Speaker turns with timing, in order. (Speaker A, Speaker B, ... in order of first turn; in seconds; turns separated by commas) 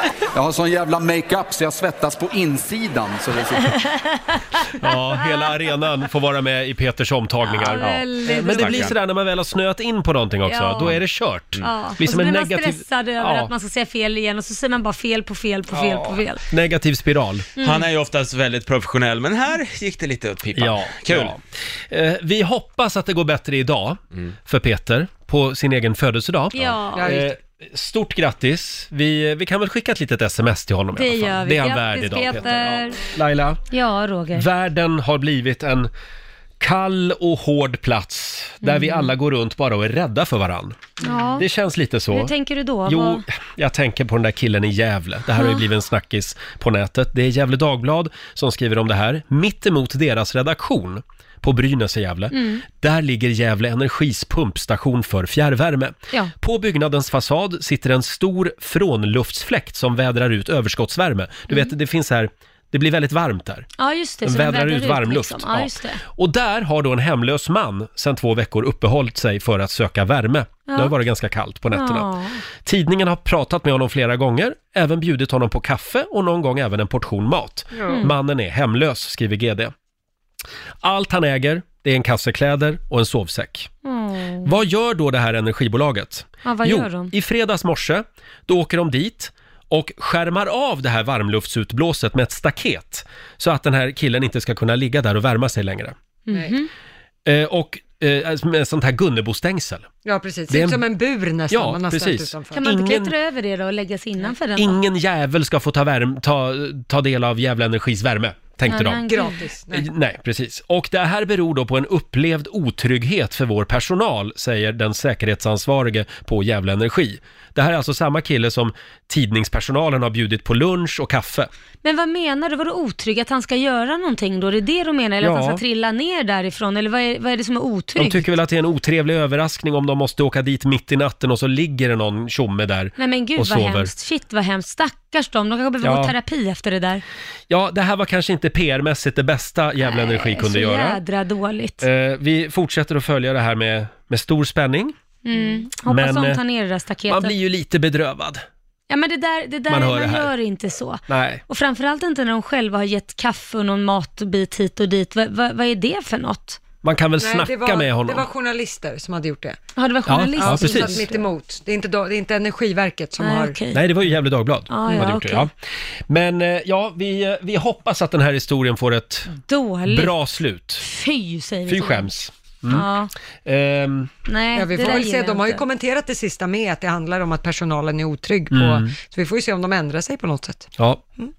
Speaker A: 0.3-3.8, Speaker B: 3.8-4.3, Speaker C: 4.8-13.5, Speaker B: 5.2-5.5, Speaker B: 7.4-8.9, Speaker D: 7.8-8.9, Speaker B: 10.4-10.9, Speaker B: 11.6-16.4, Speaker C: 15.7-17.5, Speaker B: 17.6-17.9, Speaker D: 17.6-21.4, Speaker C: 20.5-21.4, Speaker C: 21.9-33.6, Speaker B: 26.5-27.1, Speaker E: 26.9-27.3, Speaker B: 30.9-33.0, Speaker B: 33.7-34.5, Speaker C: 34.4-35.9, Speaker C: 36.6-40.8, Speaker B: 38.6-39.1, Speaker B: 41.0-41.5, Speaker C: 41.4-42.3, Speaker B: 42.1-43.2, Speaker C: 42.9-63.7, Speaker B: 45.4-45.6, Speaker B: 52.3-52.6, Speaker B: 63.8-66.0, Speaker C: 64.2-72.1, Speaker B: 70.7-70.9, Speaker B: 71.7-72.4, Speaker C: 72.6-79.7, Speaker B: 77.8-78.1, Speaker C: 80.8-83.7, Speaker B: 83.8-84.5, Speaker C: 84.4-96.0, Speaker B: 86.4-87.1, Speaker B: 96.3-96.7, Speaker C: 97.2-99.9, Speaker E: 100.0-102.6, Speaker C: 100.5-100.8, Speaker C: 101.5-103.1, Speaker B: 102.5-104.8, Speaker C: 104.5-109.0, Speaker B: 108.7-109.4, Speaker E: 109.1-109.9, Speaker C: 109.7-121.5, Speaker B: 121.8-128.3, Speaker C: 125.2-125.6, Speaker C: 128.0-133.9, Speaker B: 133.0-137.0, Speaker C: 135.8-136.1, Speaker C: 137.5-141.0, Speaker B: 139.8-141.8, Speaker C: 141.8-144.9, Speaker B: 145.2-147.3, Speaker C: 145.8-146.4, Speaker C: 147.1-148.4, Speaker B: 148.9-156.6, Speaker C: 149.7-150.3, Speaker C: 151.1-151.4, Speaker C: 156.8-158.3, Speaker E: 157.2-159.6, Speaker B: 159.8-161.2, Speaker C: 160.1-161.0, Speaker E: 160.4-163.6, Speaker B: 163.2-163.8, Speaker C: 163.7-165.5, Speaker B: 164.7-165.5, Speaker C: 166.1-169.3, Speaker B: 169.3-170.2, Speaker C: 169.9-170.9, Speaker B: 170.8-172.1, Speaker C: 171.7-172.9, Speaker B: 172.7-173.1, Speaker C: 173.4-174.1, Speaker B: 174.2-175.6, Speaker E: 174.5-180.7, Speaker C: 178.5-178.9, Speaker C: 180.8-181.0